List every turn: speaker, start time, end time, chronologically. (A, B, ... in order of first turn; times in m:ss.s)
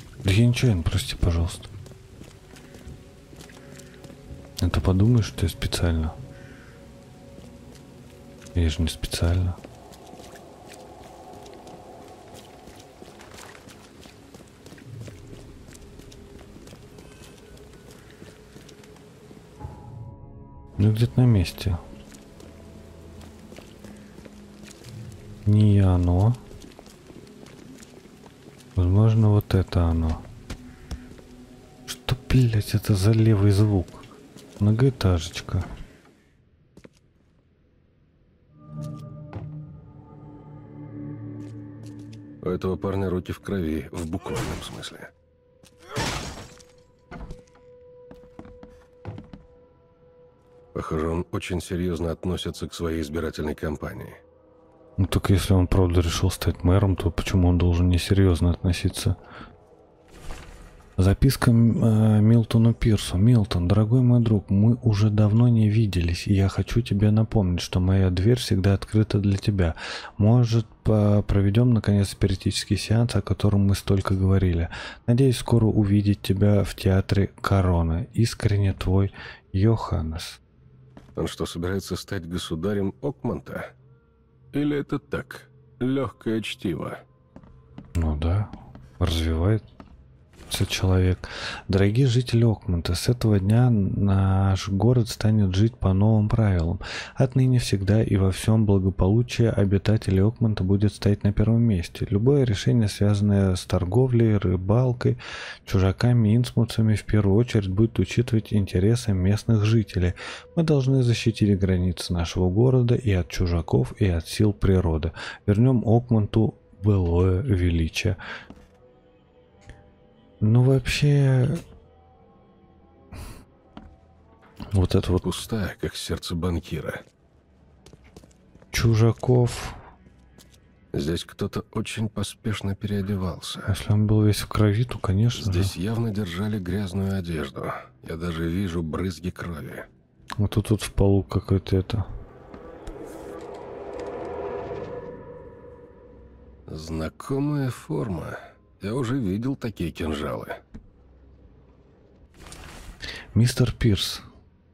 0:00.2-0:01.7 A
0:04.6-0:06.2 A
0:08.5-0:09.6 A
0:20.8-0:21.8 A
0:25.4-0:26.4 A
0:28.8-0:30.2 A
0:31.9-0:34.0 A
0:34.6-0:35.6 A
0:42.4-0:45.1 B
0:50.7-0:54.2 B
0:55.0-0:59.2 A
1:01.0-1:20.4 A
1:21.2-1:23.7 B
1:24.5-1:27.0 B
1:28.0-1:29.6 A
1:30.5-1:58.2 A
2:00.4-2:01.6 A
2:04.7-2:05.3 A
2:05.2-2:07.0 B
2:08.7-2:09.8 A
2:10.9-2:13.7 B
2:13.7-2:15.7 A
2:15.4-2:19.9 B
2:20.4-2:22.1 A
2:26.7-2:30.6 B
2:33.3-2:34.2 A